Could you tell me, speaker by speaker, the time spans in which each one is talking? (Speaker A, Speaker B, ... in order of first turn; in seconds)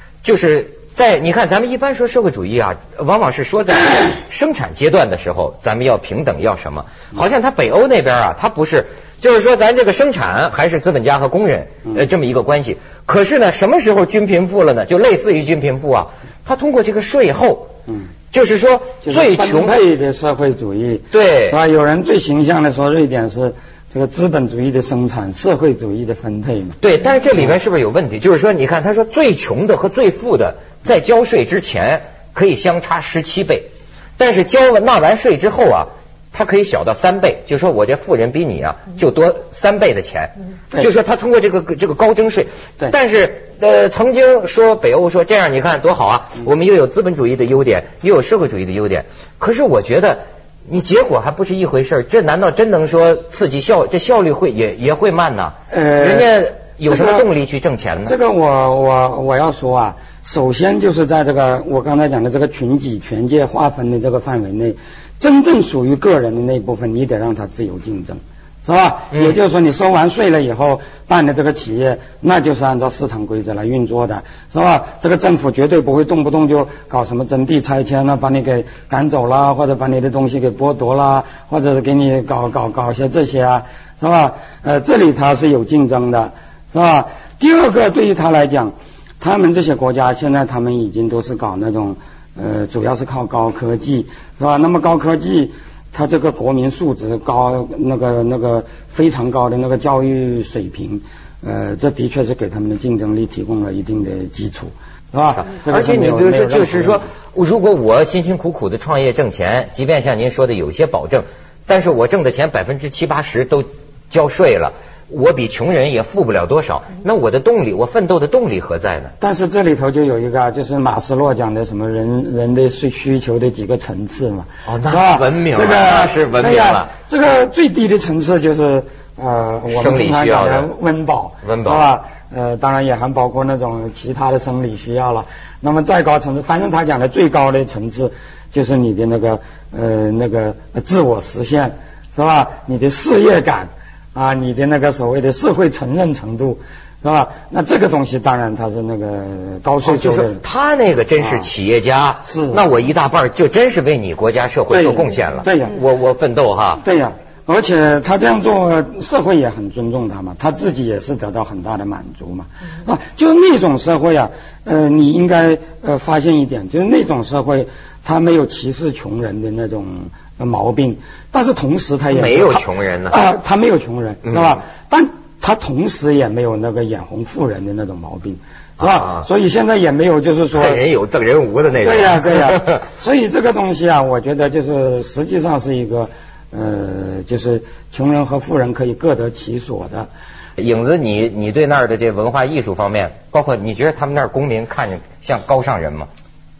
Speaker A: 0.2-17.7, 18.3-19.8, 21.1-21.6, 26.8-58.1, 69.1-69.4, 105.4-119.1, 124.7-126.9, 129.7-130.7, 131.4-131.8, 149.8-156.8, 172.1-173.2, 174.2-174.6, 178.8-179.3, 180.5-182.8, 190.6-196.1
Speaker B: 19.0-26.8, 55.7-56.3, 56.8-57.3, 58.0-107.0, 119.2-150.4, 151.2-151.5, 152.2-152.7, 154.7-155.8, 156.8-180.8, 181.8-190.1